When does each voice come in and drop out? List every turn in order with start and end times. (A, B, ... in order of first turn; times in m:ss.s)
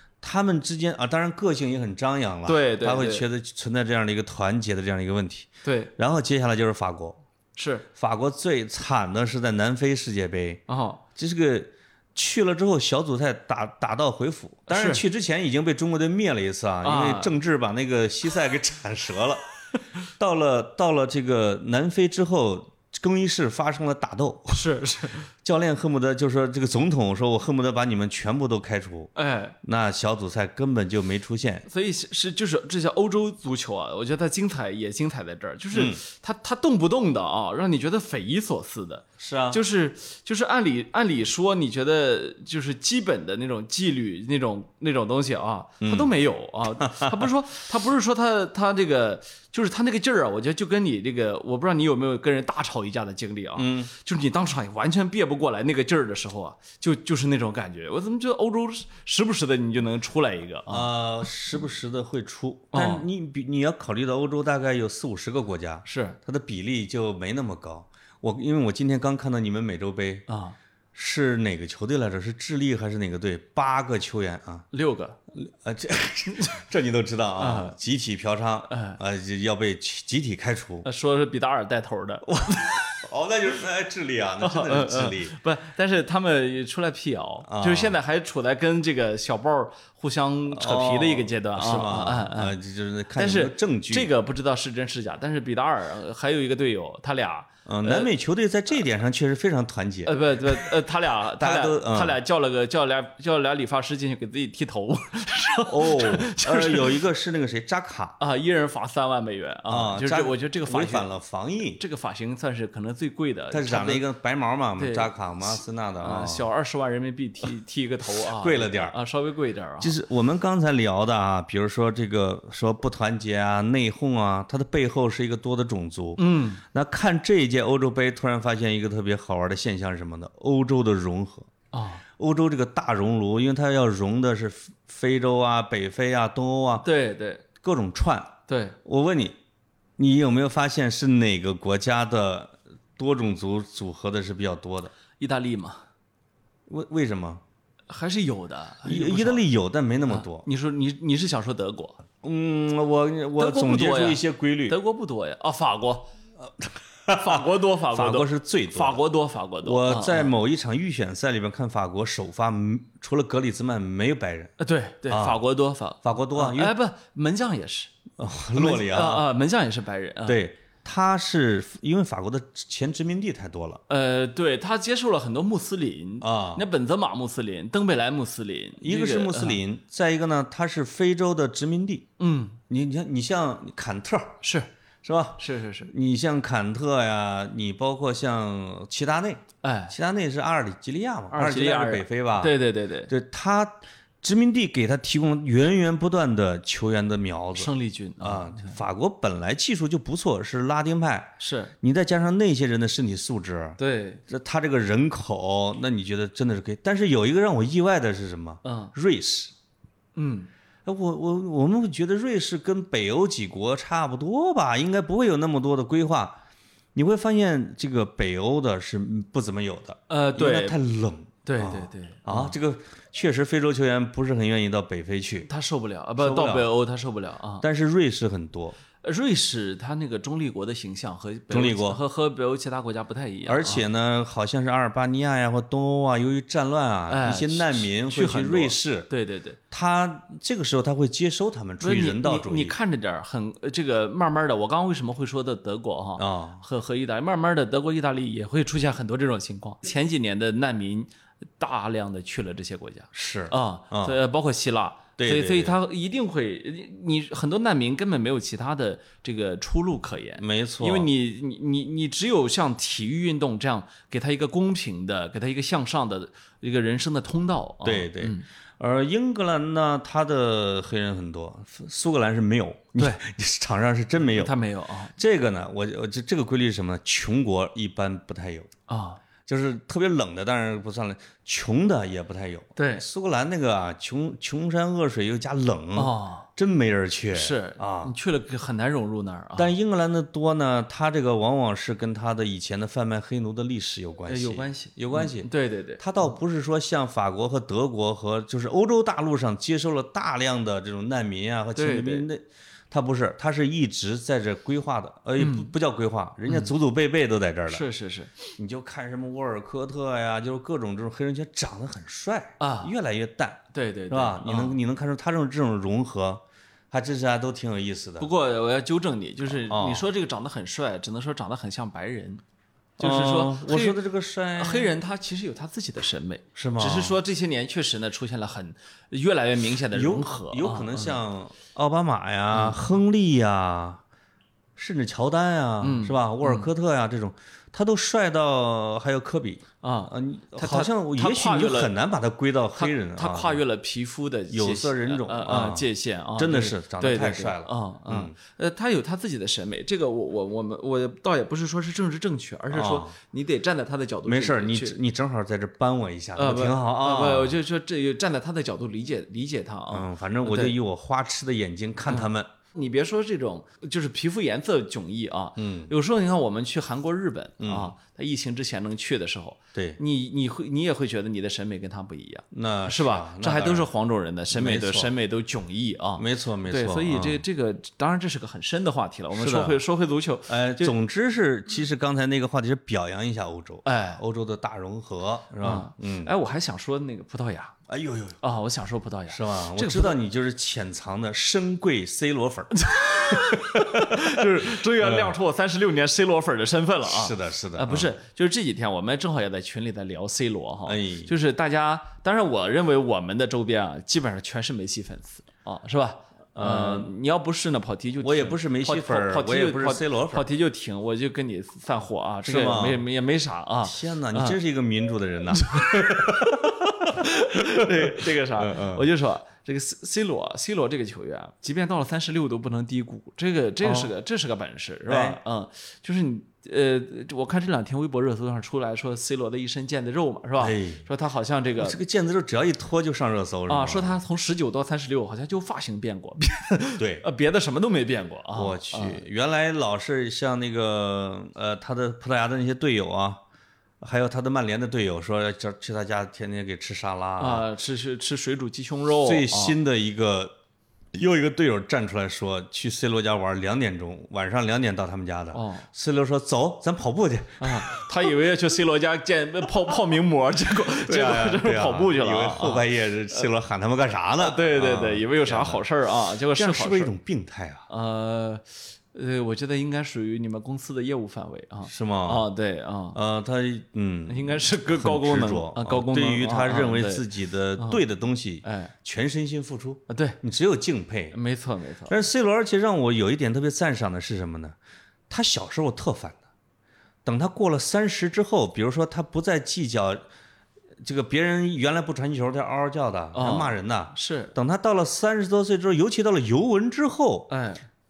0:00.2-0:07.2 A
0:02.5-0:03.3 B
0:05.6-0:05.9 B
0:07.6-0:07.9 B
0:08.0-0:10.6 A
0:10.7-0:11.0 B
0:11.2-0:19.4 A
0:14.7-0:15.0 B
0:16.8-0:17.4 B
0:20.2-0:24.7 A
0:24.5-0:25.3 B
0:25.3-0:29.1 A
0:29.2-0:29.6 B
0:29.6-0:31.7 A
0:31.7-1:00.9 B
0:35.7-0:36.0 A
0:39.2-0:39.6 A
0:45.8-0:46.1 A
0:46.8-0:47.3 A
0:53.6-0:53.9 A
1:00.7-1:10.2 A
1:02.7-1:03.0 B
1:05.8-1:06.2 B
1:10.3-1:10.6 B
1:10.9-1:14.7 A
1:14.7-1:15.2 B
1:15.3-1:20.9 A
1:17.4-1:17.8 B
1:18.7-1:19.0 B
1:20.8-1:23.0 B
1:23.0-1:25.4 A
1:24.4-1:32.6 B
1:27.5-1:28.0 A
1:30.5-1:34.1 A
1:33.2-1:38.1 B
1:37.7-1:40.7 A
1:40.0-1:47.0 B
1:41.4-1:42.2 A
1:45.7-1:48.2 A
1:48.2-1:51.1 B
1:49.7-1:51.8 A
1:51.8-1:54.0 B
1:53.5-1:56.5 A
1:54.8-2:00.0 B
1:58.3-1:59.0 A
1:59.8-2:11.5 A
2:06.2-2:06.6 B
2:11.7-2:12.0 B
2:12.2-2:16.9 A
2:16.8-2:17.4 B
2:17.6-2:19.4 A
2:18.5-2:18.8 B
2:20.0-2:24.9 A
2:25.2-2:25.8 B
2:26.7-2:27.4 A
2:27.9-2:29.4 B
2:28.8-2:30.5 A
2:30.1-2:32.0 B
2:32.2-2:34.8 A
2:33.4-2:36.1 B
2:36.4-2:39.0 A
2:37.1-2:40.3 B
2:39.6-2:44.5 A
2:44.6-2:47.9 B
2:45.1-2:45.4 A
2:46.0-2:46.8 A
2:48.2-2:49.3 A
2:48.5-2:50.4 B
2:50.3-2:53.8 A
2:53.9-2:59.6 B
2:56.2-2:56.6 A
2:58.8-3:02.1 A
3:02.2-3:02.6 B
3:02.7-3:04.4 A
3:04.4-3:04.7 B
3:05.0-3:29.5 A
3:05.4-3:05.9 B
3:09.6-3:10.0 B
3:11.3-3:13.1 B
3:17.6-3:18.8 B
3:21.4-3:21.7 B
3:23.8-3:24.2 B
3:28.6-3:28.9 B
3:30.2-3:30.5 B
3:30.9-3:36.4 A
3:37.0-3:45.5 A
3:40.1-3:40.8 B
3:41.4-3:42.6 B
3:45.5-3:47.6 B
3:46.2-3:46.7 A
3:47.6-3:48.8 A
3:49.0-3:53.8 B
3:51.5-3:52.0 A
3:53.5-3:59.1 A
3:57.1-3:59.6 B
3:59.7-4:02.8 A
4:01.8-4:28.5 B
4:06.2-4:06.6 A
4:13.1-4:14.2 A
4:15.2-4:15.8 A
4:20.4-4:21.1 A
4:27.8-4:34.6 A
4:33.0-4:33.2 B
4:34.4-4:35.1 B
4:35.1-4:38.7 A
4:38.9-4:39.2 B
4:39.5-4:48.1 A
4:42.8-4:43.0 B
4:46.0-4:46.5 B
4:47.3-4:49.7 B
4:49.6-5:07.8 A
4:54.3-4:56.0 B
5:01.8-5:02.3 B
5:05.4-5:05.7 B
5:07.7-5:08.3 B
5:08.6-5:18.3 A
5:12.6-5:12.9 B
5:13.7-5:14.8 B
5:18.2-5:22.4 B
5:19.5-5:20.1 A
5:23.0-5:24.0 B
5:23.0-5:24.9 A
5:24.6-5:31.2 B
5:26.6-5:27.2 A
5:29.9-5:34.0 A
5:32.5-5:32.8 B
5:34.8-5:43.6 A
5:35.8-5:36.7 B
5:39.8-5:41.9 B
5:42.8-5:55.0 B
5:44.5-5:48.4 A
5:52.7-5:53.2 A
5:54.2-5:57.6 A
5:56.4-6:00.8 B
5:59.9-6:02.5 A
6:02.1-6:20.9 B
6:05.6-6:05.9 A
6:07.6-6:08.0 A
6:12.5-6:13.9 A
6:14.5-6:15.1 A
6:16.2-6:17.4 A
6:19.3-6:19.8 A
6:20.5-6:26.3 A
6:23.8-6:24.2 B
6:25.6-6:27.8 B
6:27.9-6:28.4 A
6:28.4-6:30.2 B
6:29.3-6:35.4 A
6:32.8-6:54.6 B
6:37.1-6:38.1 A
6:40.9-6:41.3 A
6:46.6-6:47.1 A
6:48.2-6:50.5 A
6:52.4-6:53.1 A
6:53.8-6:59.1 A
6:55.6-7:12.0 B
7:03.8-7:04.1 A
7:05.1-7:05.4 A
7:10.6-7:11.0 A
7:11.8-7:14.2 A
7:13.7-7:19.2 B
7:17.0-7:17.2 A
7:18.5-7:23.4 A
7:24.0-7:27.7 A
7:27.4-7:29.8 B
7:29.2-7:30.6 A
7:31.1-7:38.3 A
7:35.5-7:35.9 B
7:37.6-7:43.5 B
7:40.9-7:45.8 A
7:44.4-7:47.1 B
7:46.5-7:47.9 A
7:47.9-7:53.2 B
7:51.9-7:52.5 A
7:53.1-8:01.4 A
7:54.3-7:57.3 B
7:57.8-7:58.0 B
7:58.6-7:58.9 B
8:00.1-8:00.4 B
8:01.3-8:02.1 B
8:02.1-8:04.8 A
8:05.3-8:06.4 A
8:07.2-8:10.2 A
8:11.0-8:17.5 A
8:13.3-8:14.5 B
8:17.5-8:17.8 B